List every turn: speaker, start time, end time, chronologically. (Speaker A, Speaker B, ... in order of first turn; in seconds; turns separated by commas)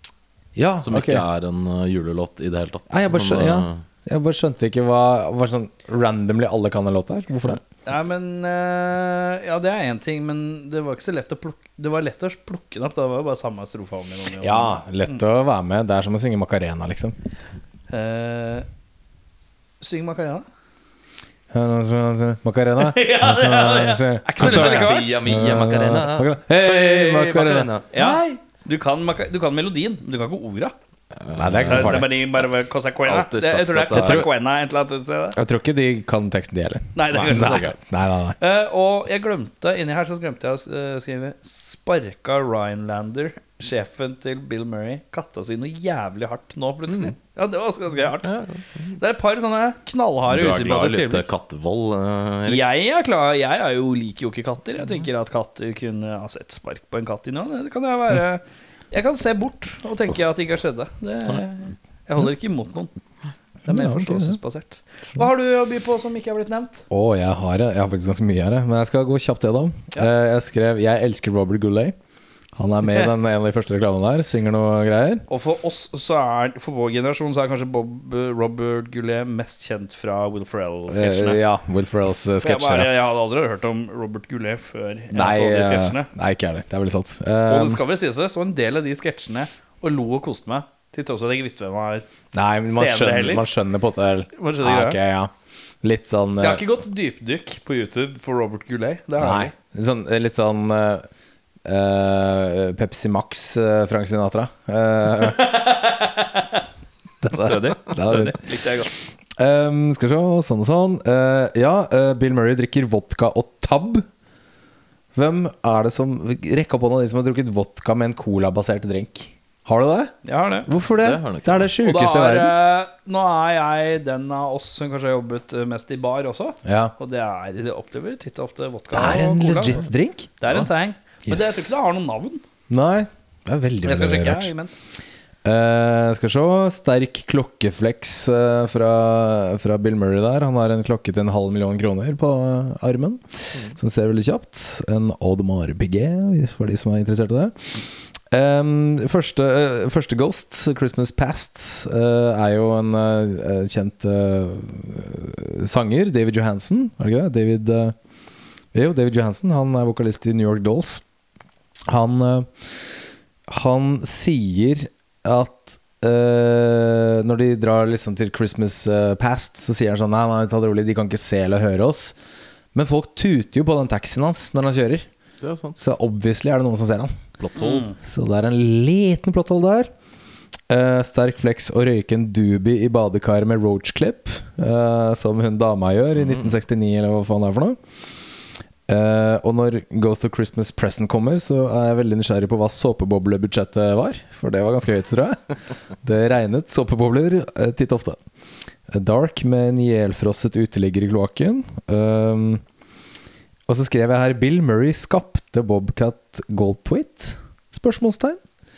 Speaker A: 0.5-1.2, Speaker B: 0.8-3.8, Speaker A: 2.9-7.6, Speaker C: 7.8-15.2, Speaker A: 14.4-17.1, Speaker C: 17.9-18.6, Speaker C: 19.8-20.4, Speaker A: 21.5-28.1, Speaker C: 22.8-25.1, Speaker B: 24.4-27.9, Speaker C: 27.9-30.7, Speaker B: 31.1-32.1, Speaker A: 31.3-32.1, Speaker C: 31.6-35.4, Speaker B: 33.0-34.3, Speaker A: 33.9-34.3, Speaker A: 35.3-38.4, Speaker C: 36.9-37.7, Speaker B: 37.1-37.7, Speaker C: 38.4-48.3, Speaker B: 48.2-48.9, Speaker C: 49.0-51.2, Speaker B: 50.3-52.7, Speaker C: 52.5-62.9, Speaker A: 63.6-64.4, Speaker C: 63.6-66.8, Speaker A: 66.9-71.9, Speaker A: 72.5-75.2, Speaker C: 75.3-81.4, Speaker A: 80.9-82.9, Speaker C: 82.4-86.1, Speaker A: 85.1-87.8, Speaker C: 87.5-92.0, Speaker A: 92.3-96.6, Speaker C: 92.7-93.5, Speaker C: 94.3-95.0, Speaker C: 96.4-99.5, Speaker A: 99.2-101.0, Speaker A: 101.6-105.5, Speaker C: 105.3-106.6, Speaker A: 107.2-108.4, Speaker C: 107.3-108.9, Speaker A: 109.4-114.0, Speaker A: 115.1-120.1, Speaker C: 120.2-120.7, Speaker A: 120.7-122.5, Speaker B: 120.9-121.7, Speaker C: 121.8-129.8, Speaker A: 126.6-126.9, Speaker A: 128.9-130.3, Speaker C: 130.4-132.4, Speaker A: 131.2-131.8, Speaker A: 132.7-134.5, Speaker C: 133.8-134.8, Speaker A: 135.4-157.9, Speaker A: 158.7-161.0, Speaker A: 161.9-162.5, Speaker A: 163.5-172.1, Speaker A: 172.7-175.1, Speaker B: 175.4-175.8, Speaker A: 175.8-177.1, Speaker B: 177.4-177.9, Speaker C: 177.6-177.9, Speaker A: 178.0-179.9, Speaker A: 180.7-187.8, Speaker B: 186.2-186.5, Speaker A: 188.9-195.5, Speaker A: 196.0-198.2, Speaker A: 198.9-202.6, Speaker A: 203.7-208.4